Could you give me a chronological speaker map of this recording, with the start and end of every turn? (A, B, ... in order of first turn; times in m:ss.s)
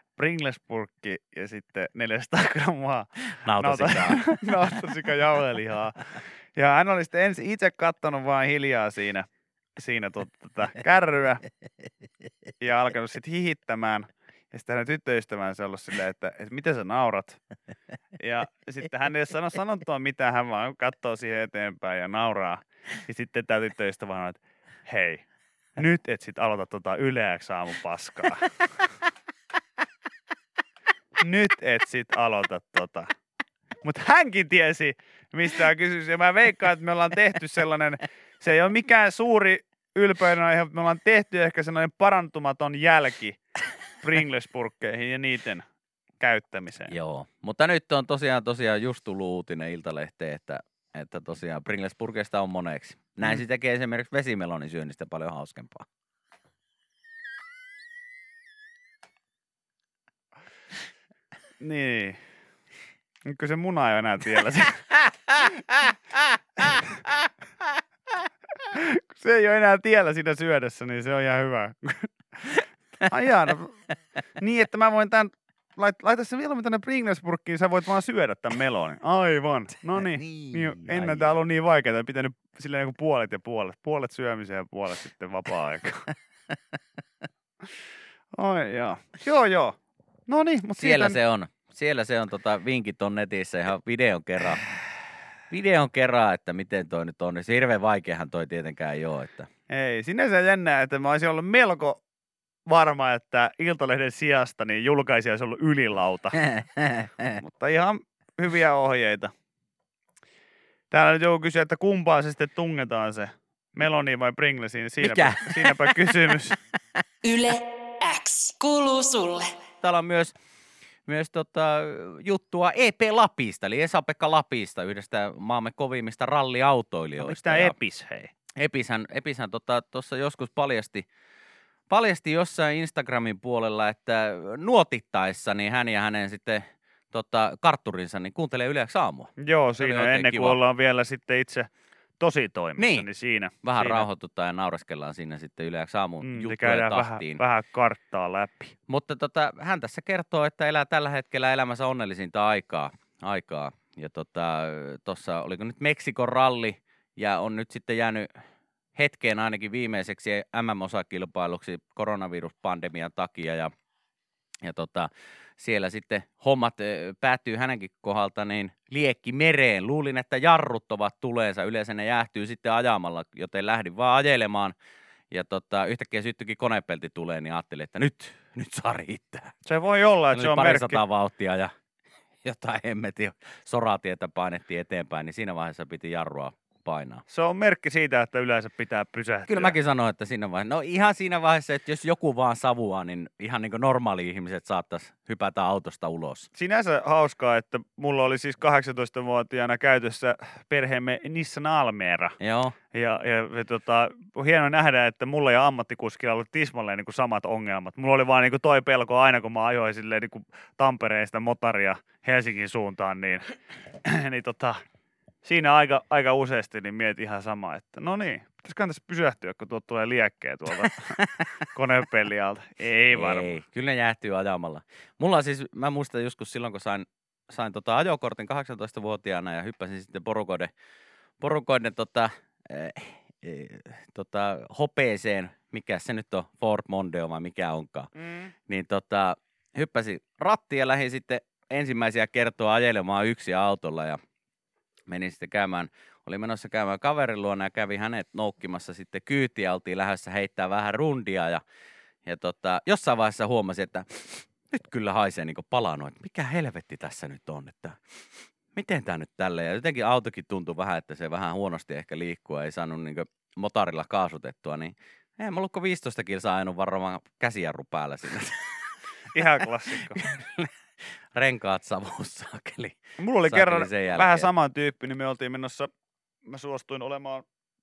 0:00.2-0:11.4 A
0:03.4-0:04.4 B
0:12.6-0:17.4 A
0:18.2-0:25.2 A
0:25.8-0:28.9 A
0:31.2-0:33.1 A
0:33.8-0:43.4 A
0:44.0-0:45.7 A
0:46.2-0:47.0 A
0:46.9-0:55.9 B
1:01.6-1:02.2 A
1:03.2-1:05.6 A
1:06.6-1:06.9 A
1:08.6-1:13.8 A
1:14.4-1:26.1 A
1:20.2-1:21.3 B
1:28.3-1:31.2 A
1:30.8-1:34.6 B
1:35.5-1:39.5 B
1:39.7-1:42.0 A
1:42.7-1:46.4 A
1:46.4-1:47.4 B
1:47.4-1:49.3 A
1:50.9-1:56.6 A
1:55.0-1:56.1 B
1:57.2-1:59.5 C
1:59.8-2:00.4 B
2:01.1-2:07.8 B
2:07.2-2:08.3 A
2:08.6-2:11.1 B
2:11.9-2:20.6 B
2:19.4-2:21.7 A
2:22.2-2:24.1 A
2:22.8-2:23.1 B
2:23.6-2:27.4 B
2:26.2-2:28.7 A
2:28.9-2:38.3 B
2:39.0-2:43.7 B
2:44.6-2:54.8 B
2:55.3-2:59.5 B
2:59.6-3:01.0 A
3:00.3-3:01.7 B
3:02.4-3:07.2 B
3:07.3-3:09.8 A
3:09.5-3:16.5 B
3:16.6-3:22.4 A
3:22.4-3:22.8 B
3:22.9-3:34.8 A
3:35.4-3:43.6 A
3:41.2-3:41.5 B
3:43.1-3:50.7 B
3:51.4-3:58.1 B
3:58.2-3:58.5 A
3:58.7-4:04.2 B
4:05.1-4:11.6 B
4:12.2-4:18.0 B
4:18.7-4:29.0 B
4:29.3-4:30.2 A
4:29.9-4:30.7 B
4:31.4-4:34.5 B
4:33.2-4:35.9 A
4:36.4-4:37.4 A